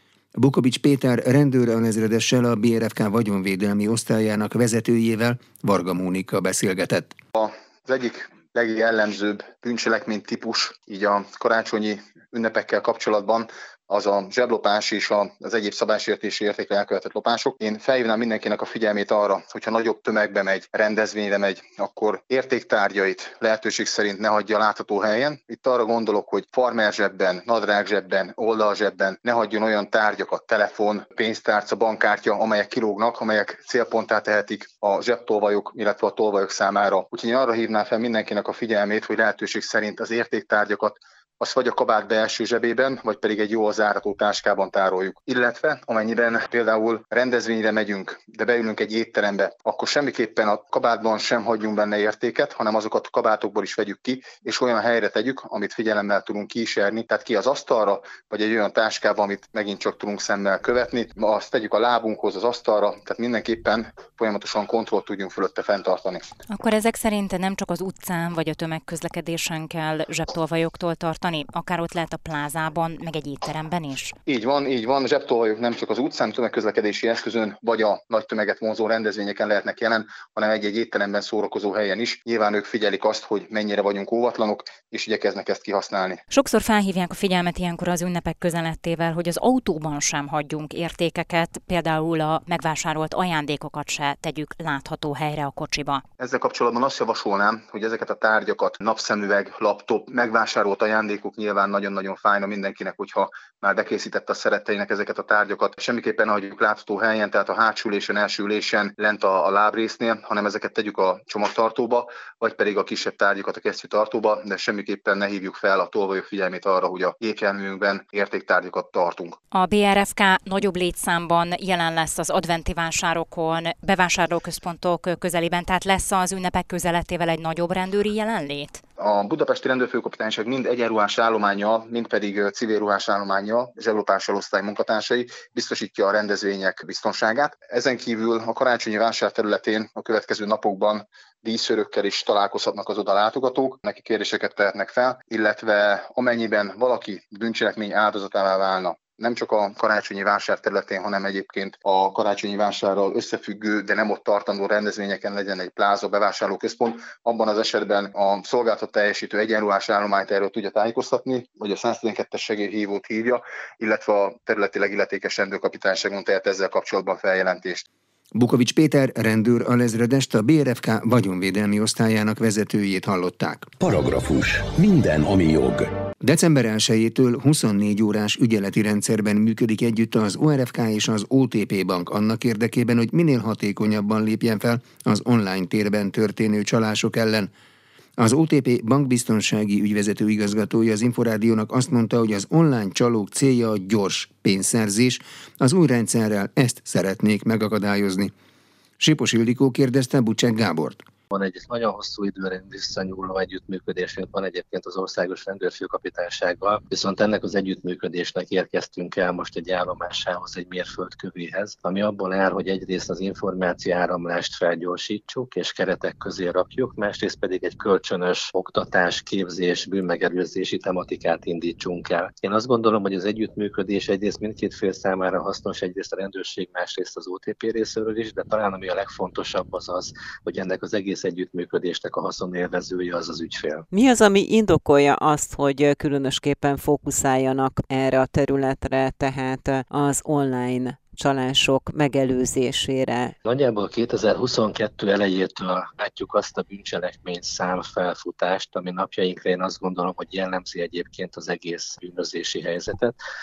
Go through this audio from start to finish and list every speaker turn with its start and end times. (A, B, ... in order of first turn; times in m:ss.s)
0:00.4-0:07.2 A
0:07.3-1:06.2 B
1:06.5-1:14.1 C
1:14.3-1:26.2 B
1:26.3-1:36.0 C
1:36.2-1:59.4 B
1:59.5-2:08.8 C
2:09.0-2:47.8 B
2:48.3-2:53.7 A
2:53.8-2:55.9 D
2:56.2-3:07.5 A
3:08.2-3:18.3 A
3:19.0-3:21.0 A
3:21.3-3:53.9 E
3:53.9-4:03.3 F
4:03.4-4:13.1 E